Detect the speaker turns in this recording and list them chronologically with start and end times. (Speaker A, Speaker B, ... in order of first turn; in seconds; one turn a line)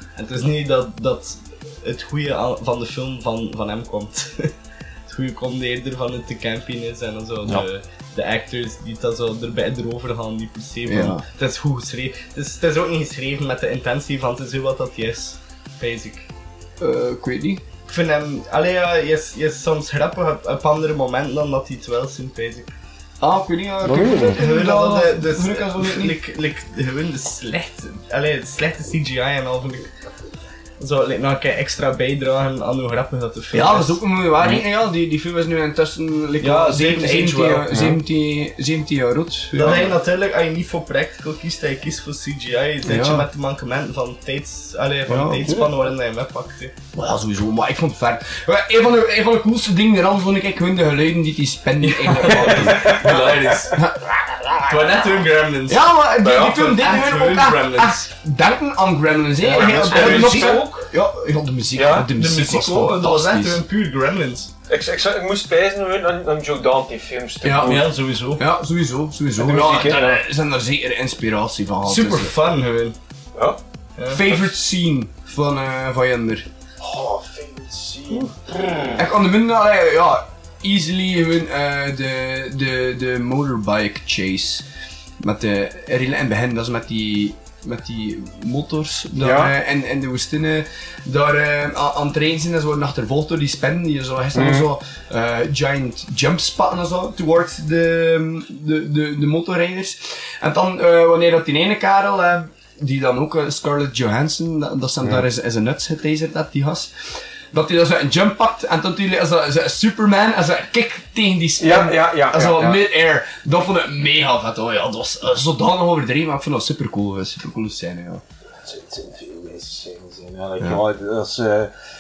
Speaker A: 0.2-4.5
Speaker A: 5.1-16.3
Speaker B: 10.9-11.2
Speaker B: 16.8-17.6
Speaker A: 17.9-22.7
Speaker B: 23.2-26.2
Speaker C: 23.8-24.4
Speaker A: 24.3-29.9
Speaker A: 30.8-34.0
Speaker B: 33.5-39.9
Speaker A: 36.4-38.0
Speaker C: 37.7-38.0
Speaker A: 39.5-46.8
Speaker B: 42.9-43.3
Speaker B: 45.1-45.5
Speaker B: 46.9-53.1
Speaker A: 52.3-53.8
Speaker C: 52.6-53.4
Speaker B: 53.7-54.0
Speaker A: 54.7-58.1
Speaker B: 55.7-63.6
Speaker A: 59.4-60.9
Speaker C: 59.5-60.7
Speaker C: 61.8-62.1
Speaker A: 62.1-64.5
Speaker C: 64.7-68.0
Speaker B: 67.4-67.8
Speaker A: 67.6-68.4
Speaker B: 68.4-72.3
Speaker C: 69.4-70.2
Speaker A: 71.8-73.0
Speaker B: 74.1-76.5
Speaker C: 76.8-79.1
Speaker B: 79.0-84.7
Speaker B: 85.2-106.9
Speaker C: 89.2-89.5
Speaker C: 94.3-94.7
Speaker B: 107.5-118.2
Speaker C: 111.6-112.9
Speaker C: 118.6-121.7